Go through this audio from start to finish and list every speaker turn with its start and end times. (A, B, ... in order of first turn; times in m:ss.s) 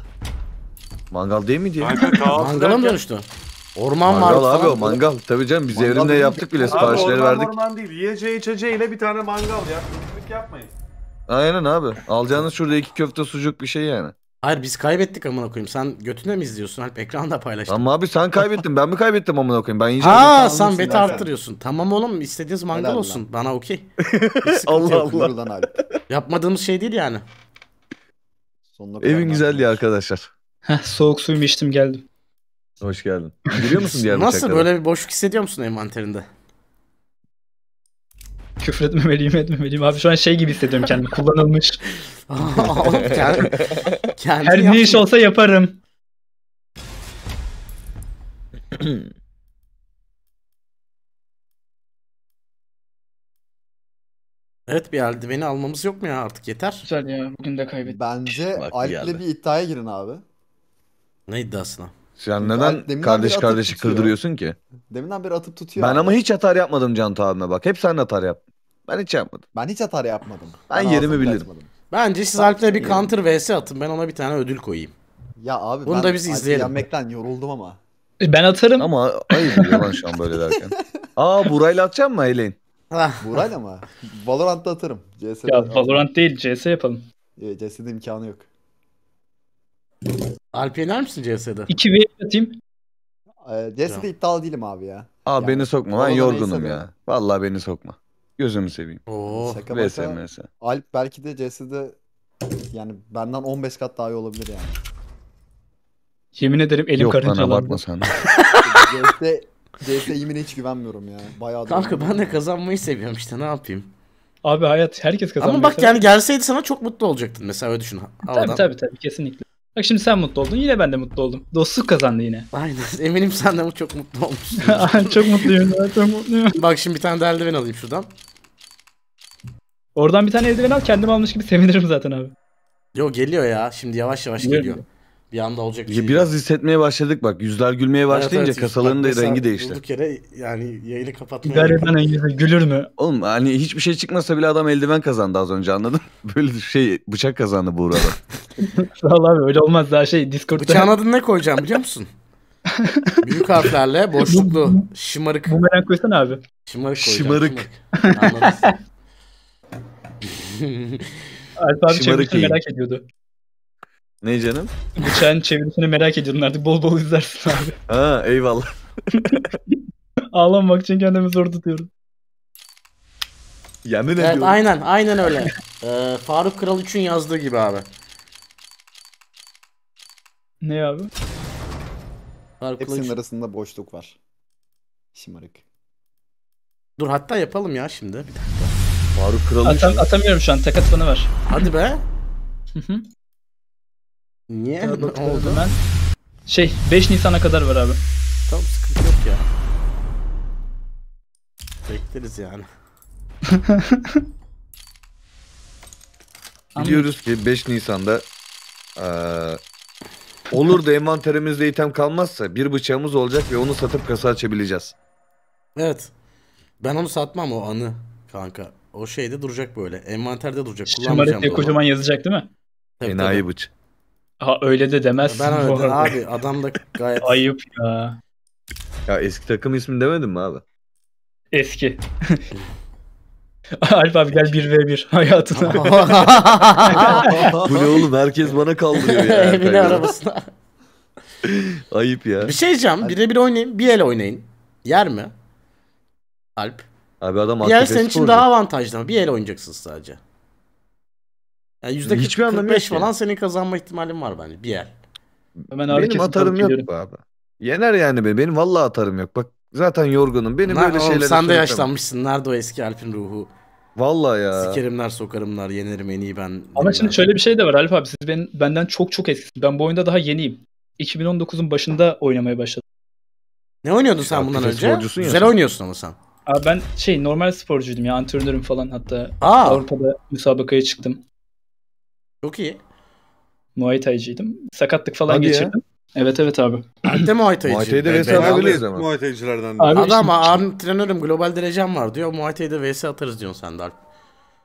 0:01.1-0:02.0 A
0:01.8-0:03.0 B
0:02.3-0:04.8 C
0:04.0-0:07.5 A
0:04.2-0:05.0 D
0:05.7-0:07.1 D
0:06.7-0:10.7 B
0:11.3-0:14.1 A
0:14.4-0:17.9 C
0:17.7-0:20.4 A
0:20.0-0:23.8 C
0:20.0-0:21.3 D
0:20.9-0:21.2 B
0:22.7-0:23.2 D
0:24.0-0:25.8 A
0:24.4-0:25.3 C
0:24.8-0:25.7 D
0:26.1-0:27.2 C
0:28.7-0:29.8 D
0:29.0-0:30.3 A
0:30.6-0:32.0 E
0:32.8-0:34.7 A
0:34.1-0:36.2 C
0:38.6-0:41.8 E
0:42.3-0:45.0 C
0:44.4-0:45.8 E
0:48.8-0:49.0 A
0:54.7-0:56.8 C
0:56.8-0:58.0 E
0:57.8-1:00.2 D
0:58.6-0:59.2 A
1:01.3-1:01.9 C
1:02.2-1:04.6 A
1:02.4-1:04.2 D
1:04.9-1:06.2 D
1:05.8-1:09.4 A
1:09.5-1:11.7 D
1:10.7-1:11.5 A
1:11.9-1:14.9 C
1:12.4-1:13.1 D
1:15.4-1:17.8 D
1:15.8-1:16.8 C
1:18.2-1:20.0 E
1:18.8-1:22.6 A
1:22.9-1:23.4 C
1:23.2-1:26.0 D
1:25.5-1:27.0 E
1:27.4-1:28.5 D
1:30.5-1:31.7 C
1:31.7-1:32.6 E
1:33.4-1:36.9 D
1:35.2-1:39.0 A
1:39.1-1:39.6 C
1:39.3-1:42.0 D
1:39.7-1:40.5 A
1:42.7-1:44.8 D
1:46.4-1:47.8 E
1:47.0-1:48.1 A
1:48.6-1:52.4 D
1:51.7-1:53.9 C
1:54.4-1:56.1 E
1:55.4-1:58.7 C
1:58.3-2:02.5 E
2:02.5-2:05.5 C
2:04.6-2:06.6 E
2:06.6-2:08.1 C
2:10.0-2:12.3 E
2:12.9-2:16.3 C
2:14.4-2:14.8 E
2:15.9-2:19.8 A
2:18.1-2:21.9 C
2:21.4-2:22.9 E
2:23.0-2:28.2 A
2:28.8-2:30.9 E
2:30.6-2:32.1 C
2:32.9-2:33.2 E
2:33.2-2:35.6 C
2:34.3-2:34.9 E
2:35.4-2:36.4 E
2:36.7-2:38.7 C
2:37.0-2:37.6 A
2:37.9-2:38.7 E
2:40.2-2:41.0 C
2:41.6-2:43.0 E
2:41.9-2:42.6 A
2:44.2-2:44.7 A
2:45.0-2:47.8 E
2:47.9-2:49.5 A
2:49.3-2:49.8 E
2:50.3-2:51.9 E
2:53.8-2:54.6 A
2:54.2-2:57.8 C
3:00.6-3:01.1 E
3:02.6-3:03.2 C
3:02.8-3:04.2 D
3:05.1-3:05.6 D
3:07.0-3:08.7 C
3:09.2-3:10.0 A
3:09.6-3:11.3 E
3:11.5-3:12.0 C
3:12.7-3:13.0 E
3:14.5-3:15.6 C
3:14.8-3:15.8 E
3:16.5-3:18.0 E
3:18.5-3:19.4 C
3:21.8-3:22.6 C
3:23.7-3:24.2 E
3:26.8-3:27.1 E
3:26.8-3:28.2 A
3:29.0-3:29.6 A
3:30.5-3:34.9 A
3:35.8-3:36.1 C
3:36.8-3:41.8 C
3:40.9-3:42.5 E
3:43.0-3:43.4 C
3:43.0-3:43.7 A
3:44.4-3:46.1 E
3:45.2-3:47.4 C
3:47.2-3:48.2 E
3:49.1-3:50.6 A
3:51.5-3:52.0 E
3:53.8-3:56.0 E
3:55.7-3:57.3 C
3:55.7-3:58.0 D
3:56.9-3:57.3 E
3:57.6-4:00.1 A
3:59.0-4:00.4 C
4:01.4-4:02.6 A
4:02.4-4:05.3 C
4:06.6-4:06.9 C
4:07.2-4:08.4 A
4:07.6-4:10.2 C
4:11.8-4:14.9 C
4:12.0-4:13.1 A
4:15.7-4:16.9 E
4:15.8-4:21.9 A
4:20.6-4:23.5 C
4:24.0-4:24.8 A
4:24.5-4:27.4 C
4:26.8-4:32.8 E
4:33.8-4:36.2 C
4:34.2-4:35.5 A
4:36.5-4:41.2 E
4:39.4-4:39.8 C
4:42.4-4:42.8 C
4:43.8-4:47.3 E
4:45.3-4:45.7 A
4:47.0-4:48.8 C
4:47.6-4:49.1 A
4:48.2-4:50.1 B
4:49.8-4:50.6 E
4:49.9-4:54.0 C